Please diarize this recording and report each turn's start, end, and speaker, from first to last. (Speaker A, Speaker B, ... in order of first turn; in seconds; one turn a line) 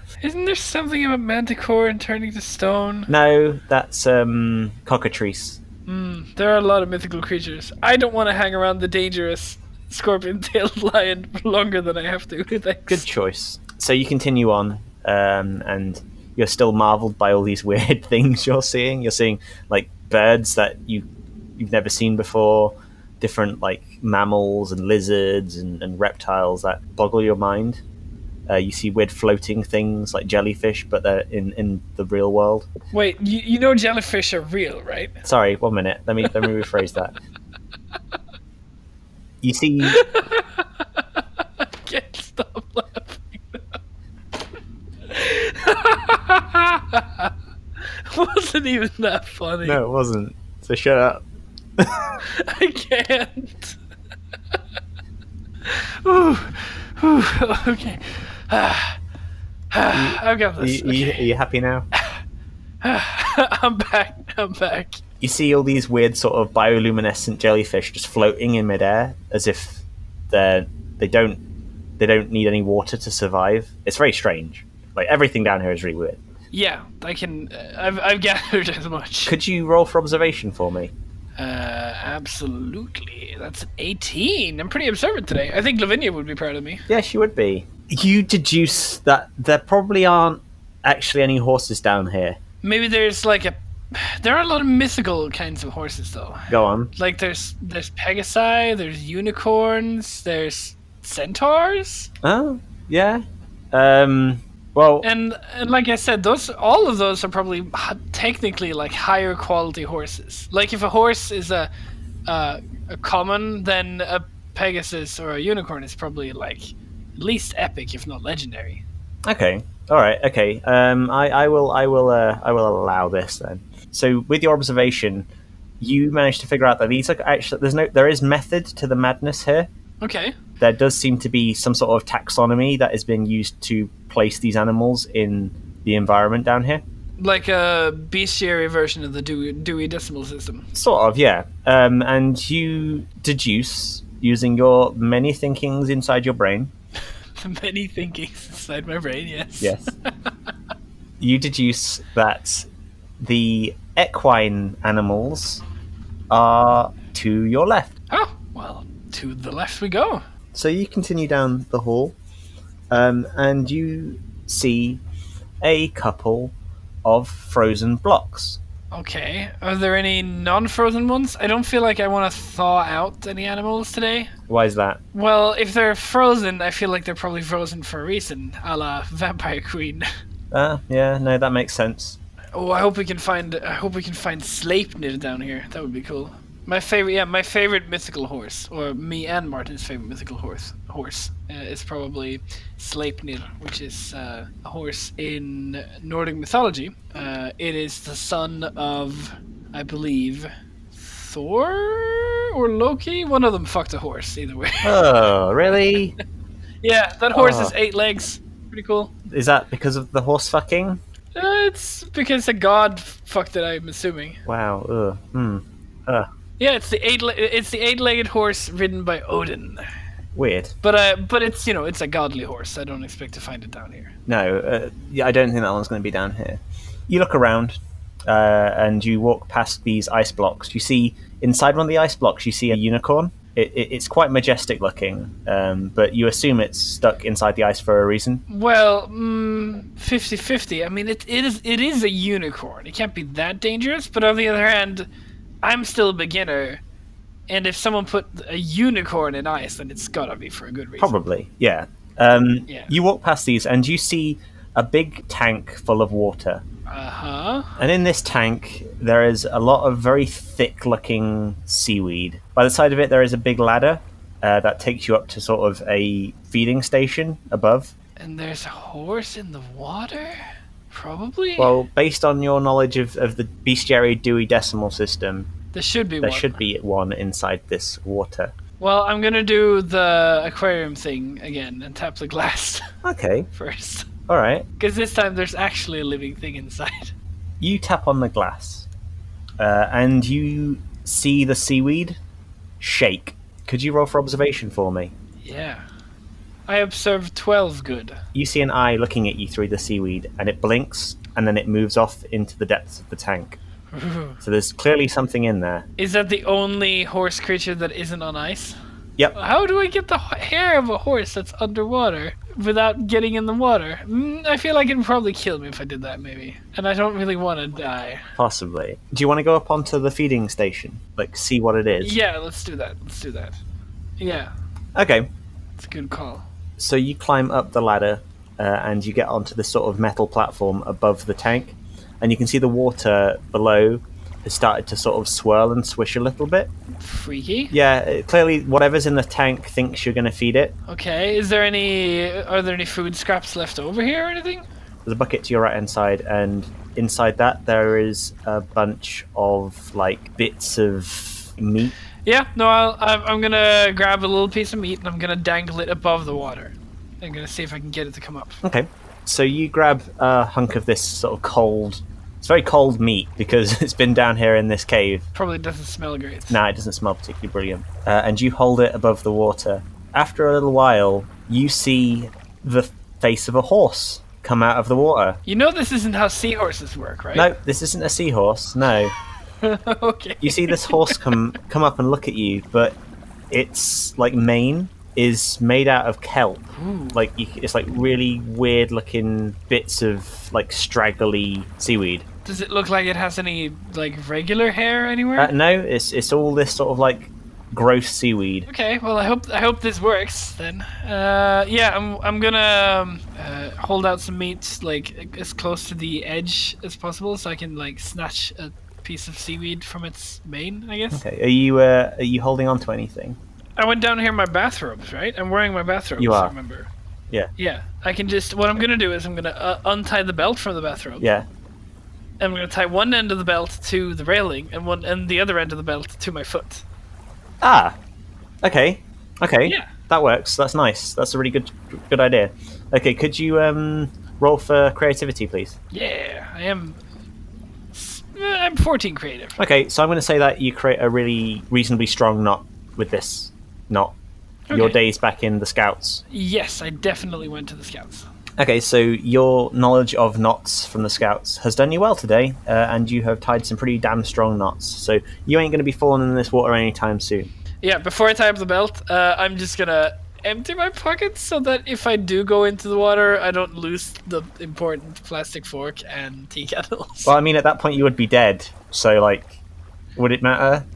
Speaker A: 0.2-3.1
Speaker B: 3.1-5.6
Speaker A: 5.9-13.1
Speaker B: 12.9-21.1
Speaker B: 21.6-27.8
Speaker B: 28.5-32.7
Speaker A: 32.9-35.2
Speaker B: 35.2-37.1
Speaker B: 39.4-40.0
Speaker A: 39.8-43.8
Speaker A: 45.1-47.3
Speaker A: 47.9-49.8
Speaker B: 49.6-51.2
Speaker B: 51.8-52.2
Speaker A: 52.2-53.8
Speaker A: 55.6-59.0
Speaker A: 59.7-61.3
Speaker B: 59.9-61.9
Speaker A: 62.8-65.0
Speaker B: 65.2-71.4
Speaker B: 72.0-76.2
Speaker A: 76.5-79.3
Speaker B: 79.3-80.9
Speaker A: 81.4-86.8
Speaker B: 86.9-92.4
Speaker A: 92.6-102.1
Speaker B: 96.5-96.9
Speaker B: 102.2-105.1
Speaker A: 105.0-111.7
Speaker A: 112.3-118.8
Speaker B: 119.2-125.3
Speaker B: 125.8-129.7
Speaker A: 130.0-130.4
Speaker B: 130.6-136.8
Speaker A: 137.2-140.7
Speaker B: 140.7-146.7
Speaker A: 147.4-150.3
Speaker B: 149.6-149.9
Speaker B: 151.2-152.7
Speaker B: 153.2-155.6
Speaker B: 156.3-157.9
Speaker A: 158.1-160.2
Speaker B: 160.5-162.2
Speaker B: 162.9-165.0
Speaker B: 165.6-166.5
Speaker B: 167.0-168.6
Speaker A: 168.9-174.3
Speaker B: 174.5-175.0
Speaker A: 175.1-180.1
Speaker B: 180.5-182.2
Speaker A: 182.5-205.0
Speaker B: 204.8-206.2
Speaker A: 206.8-209.1
Speaker B: 207.3-207.7
Speaker B: 209.3-211.0
Speaker A: 211.3-214.4
Speaker B: 214.5-216.3
Speaker A: 216.6-219.9
Speaker B: 220.3-220.7
Speaker A: 220.8-224.1
Speaker B: 224.3-238.4
Speaker A: 238.5-245.1
Speaker A: 245.6-246.8
Speaker A: 247.5-251.2
Speaker B: 251.0-256.6
Speaker A: 256.9-257.8
Speaker B: 257.8-267.9
Speaker A: 268.2-270.4
Speaker A: 270.9-271.7
Speaker B: 271.6-275.5
Speaker A: 275.7-276.6
Speaker B: 276.2-278.5
Speaker A: 278.8-282.9
Speaker B: 283.0-283.5
Speaker A: 283.5-284.1
Speaker B: 284.3-284.7
Speaker A: 284.8-287.1
Speaker B: 287.6-288.9
Speaker B: 289.6-292.2
Speaker B: 292.8-295.1
Speaker A: 295.4-295.8
Speaker A: 296.7-298.2
Speaker B: 298.3-303.6
Speaker A: 303.9-304.4
Speaker B: 304.4-305.9
Speaker A: 306.0-308.8
Speaker A: 309.3-318.3
Speaker B: 318.4-322.2
Speaker A: 322.0-323.6
Speaker A: 324.2-324.5
Speaker B: 324.9-325.3
Speaker A: 325.8-326.4
Speaker B: 326.8-336.7
Speaker A: 337.0-337.7
Speaker B: 337.7-340.8
Speaker A: 340.9-344.6
Speaker B: 345.1-351.9
Speaker A: 352.2-358.6
Speaker B: 358.6-365.3
Speaker A: 365.3-366.6
Speaker B: 366.5-375.4
Speaker A: 375.5-377.5
Speaker B: 377.4-379.1
Speaker A: 379.6-381.2
Speaker B: 380.4-383.0
Speaker B: 383.5-392.3
Speaker A: 386.8-387.2
Speaker A: 392.4-395.5
Speaker B: 395.4-398.7
Speaker A: 398.7-411.2
Speaker B: 411.1-413.4
Speaker A: 413.8-416.9
Speaker B: 416.2-416.5
Speaker A: 417.6-421.3
Speaker B: 421.2-421.5
Speaker A: 422.4-426.8
Speaker B: 427.6-428.0
Speaker B: 428.6-435.8
Speaker A: 429.6-429.9
Speaker A: 435.9-437.0
Speaker A: 437.9-439.6
Speaker B: 439.6-444.1
Speaker A: 444.7-445.0
Speaker B: 444.7-446.2
Speaker A: 446.3-448.3
Speaker B: 448.6-457.5
Speaker A: 457.8-467.3
Speaker B: 467.2-469.6
Speaker B: 470.2-470.9